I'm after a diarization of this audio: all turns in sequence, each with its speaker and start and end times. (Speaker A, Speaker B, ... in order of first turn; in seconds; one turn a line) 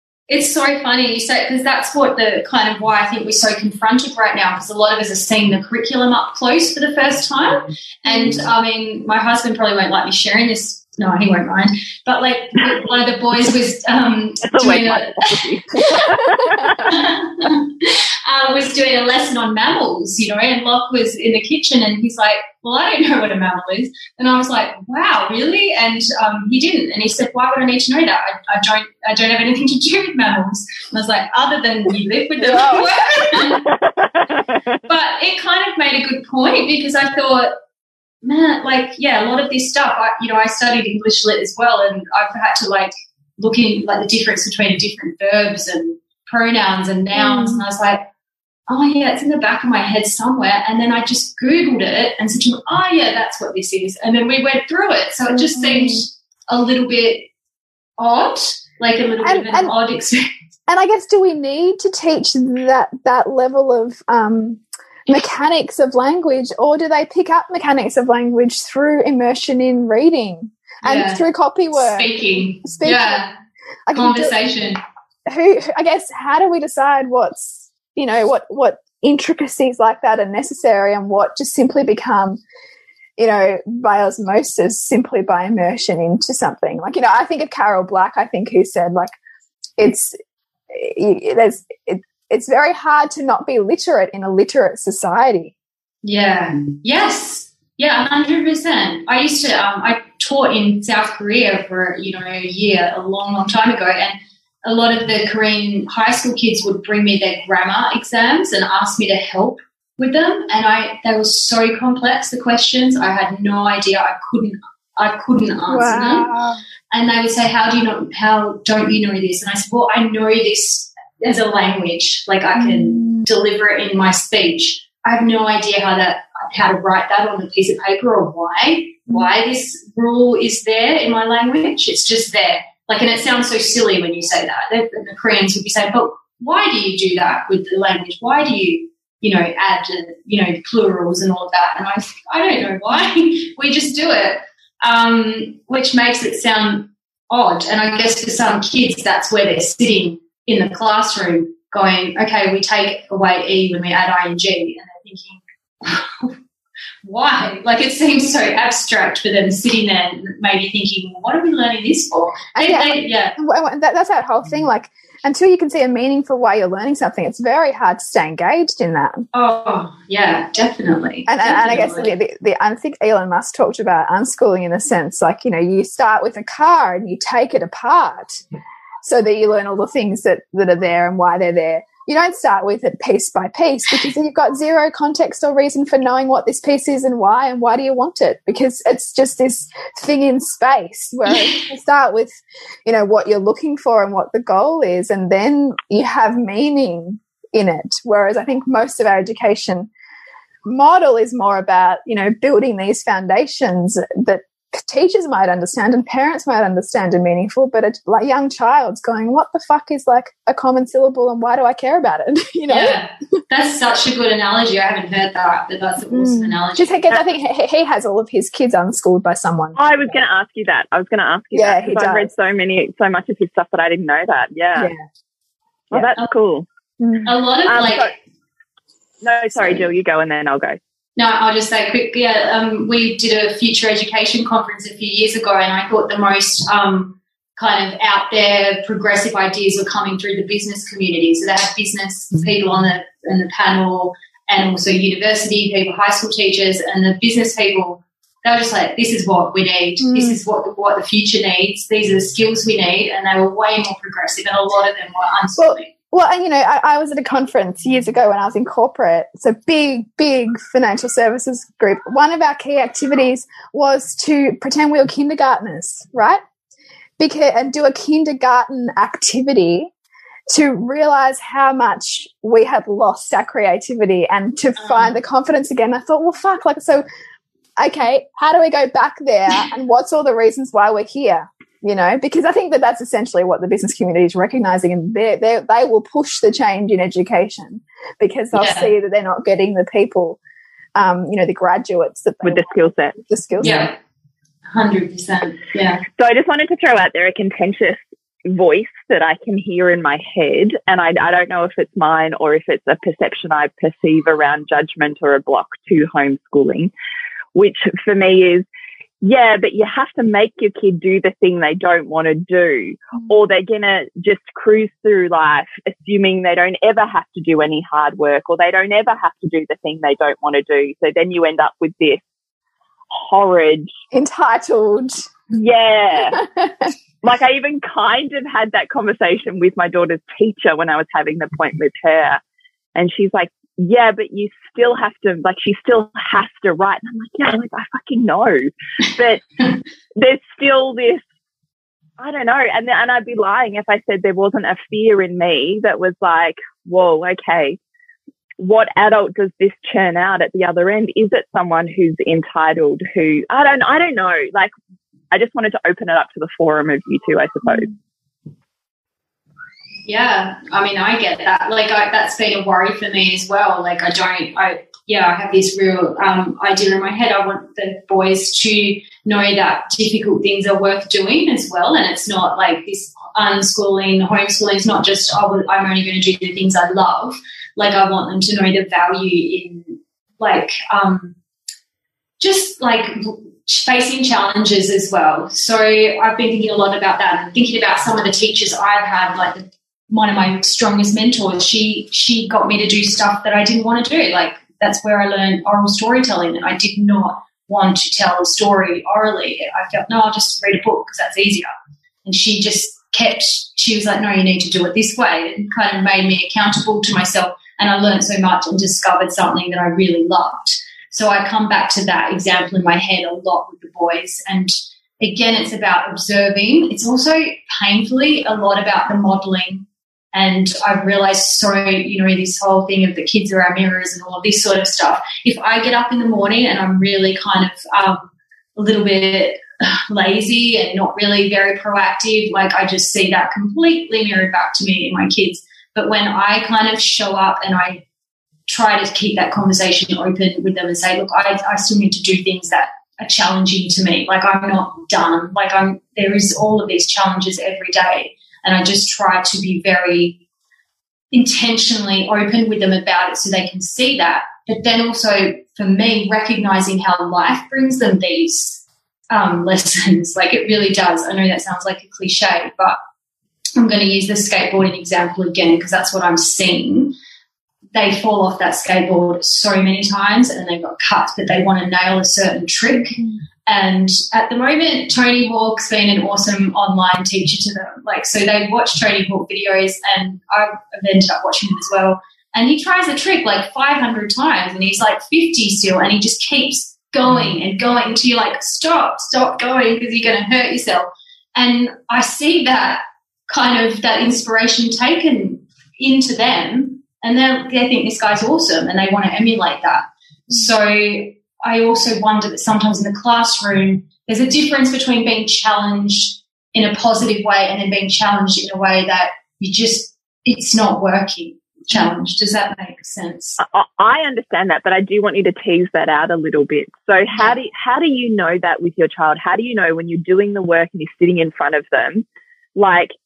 Speaker A: 0.3-15.4
Speaker B: 8.1-8.4
Speaker C: 14.4-16.9
Speaker A: 16.8-33.6
Speaker B: 32.4-33.5
Speaker C: 33.6-34.8
Speaker A: 34.9-37.6
Speaker A: 38.2-48.0
Speaker B: 47.1-47.6
Speaker A: 48.7-57.3
Speaker B: 55.3-56.0
Speaker A: 58.0-60.3
Speaker B: 59.2-59.7
Speaker B: 60.7-73.2
Speaker A: 70.8-71.2
Speaker A: 71.8-73.3
Speaker B: 73.9-74.3
Speaker A: 73.9-74.8
Speaker B: 75.3-82.4
Speaker B: 83.2-89.1
Speaker B: 89.8-90.2
Speaker B: 90.7-95.5
Speaker A: 96.0-116.3
Speaker B: 115.7-116.6
Speaker A: 116.9-156.3
Speaker B: 122.6-123.3
Speaker A: 157.0-163.4
Speaker B: 162.6-169.3
Speaker A: 169.3-172.1
Speaker B: 171.3-178.4
Speaker B: 179.0-199.9
Speaker A: 191.3-191.7
Speaker B: 200.7-213.0
Speaker A: 212.7-217.1
Speaker B: 216.1-220.2
Speaker C: 219.8-224.9
Speaker B: 221.5-222.3
Speaker B: 224.8-225.0
Speaker C: 225.9-226.7
Speaker B: 227.0-227.3
Speaker A: 227.2-228.1
Speaker C: 227.7-228.1
Speaker C: 229.2-230.8
Speaker B: 229.6-229.8
Speaker A: 231.2-255.9
Speaker B: 250.0-250.4
Speaker B: 255.6-266.4
Speaker B: 267.2-269.9
Speaker B: 270.5-277.0
Speaker A: 274.8-275.1
Speaker B: 277.8-290.4
Speaker A: 288.5-288.9
Speaker B: 291.0-293.9
Speaker C: 292.4-293.8
Speaker A: 293.6-293.9
Speaker A: 294.7-296.1
Speaker C: 296.2-306.9
Speaker C: 307.6-308.6
Speaker C: 309.2-322.2
Speaker C: 323.1-323.9
Speaker B: 324.1-325.2
Speaker C: 325.5-326.4
Speaker B: 326.3-326.9
Speaker C: 327.2-332.4
Speaker C: 332.9-339.6
Speaker C: 340.2-341.2
Speaker C: 342.2-347.8
Speaker C: 348.6-354.7
Speaker C: 355.3-357.9
Speaker A: 360.1-381.4
Speaker A: 382.4-401.7
Speaker A: 402.2-438.0
Speaker A: 438.7-450.4
Speaker A: 451.3-463.0
Speaker A: 463.8-467.1
Speaker A: 467.9-513.6
Speaker C: 513.6-522.2
Speaker C: 522.8-523.1